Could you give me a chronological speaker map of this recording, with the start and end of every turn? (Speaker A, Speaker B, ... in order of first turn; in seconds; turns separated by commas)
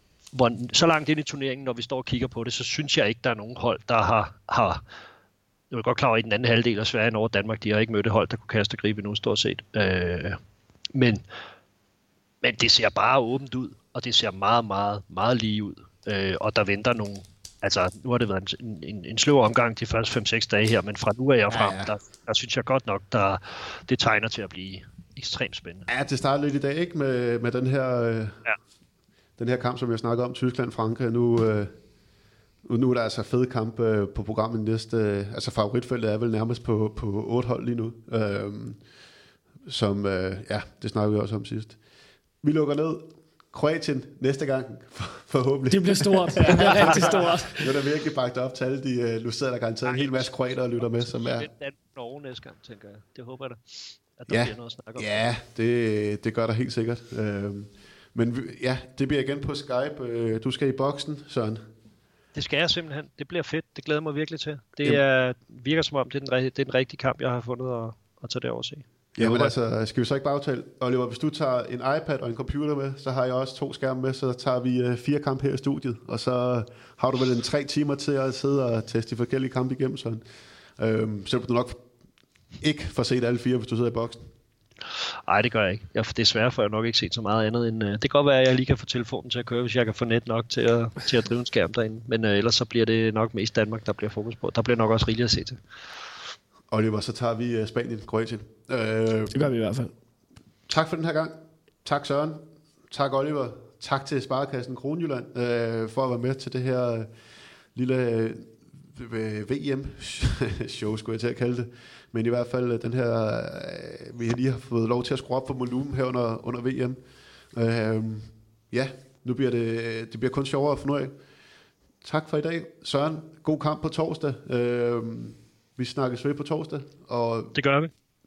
Speaker A: 0.3-4.8, Speaker A: 5.7-10.4, Speaker A: 10.9-11.2, Speaker A: 12.4-25.9, Speaker B: 21.5-21.9, Speaker B: 25.9-28.4, Speaker B: 29.4-31.7, Speaker B: 32.6-38.8, Speaker B: 39.7-41.8, Speaker B: 42.4-51.5, Speaker C: 45.7-47.6, Speaker A: 46.5-47.0, Speaker A: 49.9-53.6, Speaker A: 54.2-55.2, Speaker B: 54.3-61.6, Speaker A: 62.4-69.5, Speaker B: 69.2-80.2, Speaker B: 80.8-81.8, Speaker B: 82.6-84.2, Speaker A: 85.3-95.6, Speaker B: 96.7-99.5, Speaker C: 99.3-99.9, Speaker B: 100.7-107.1, Speaker B: 107.8-117.0, Speaker B: 117.5-121.1, Speaker B: 122.0-127.5, Speaker A: 127.5-127.9